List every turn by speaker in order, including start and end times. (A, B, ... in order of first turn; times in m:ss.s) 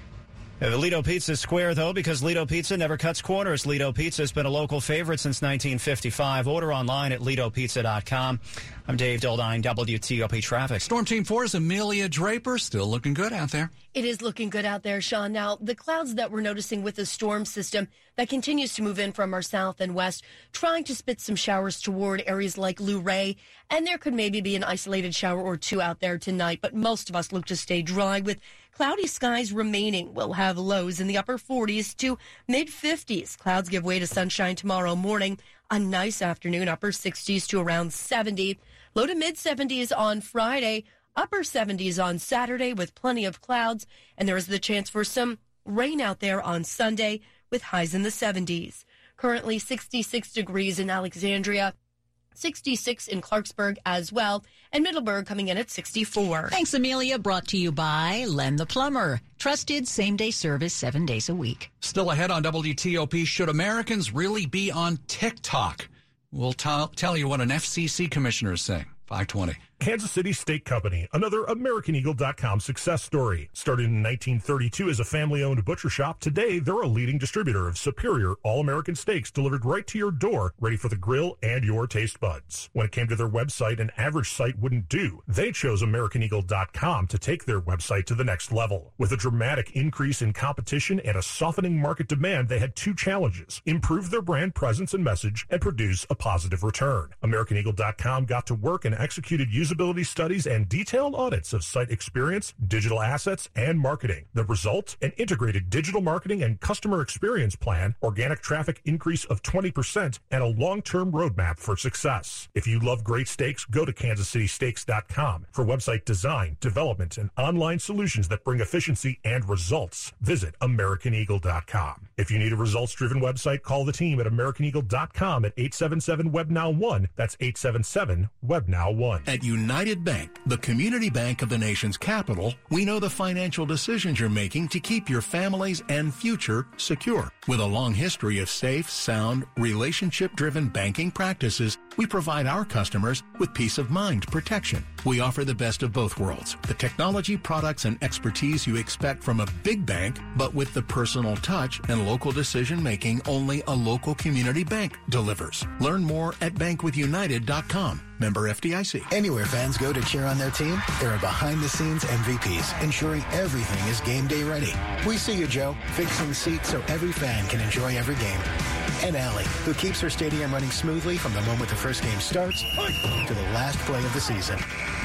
0:00.6-0:10.9 A
0:10.8-0:13.7 B
0:14.0-0:51.7 C
0:52.4-0:56.5 C
0:56.5-1:01.7 D
1:01.8-1:09.6 B
1:09.8-2:09.3 E
2:09.3-2:39.1 F
2:39.1-2:48.5 G
2:49.0-2:54.6 G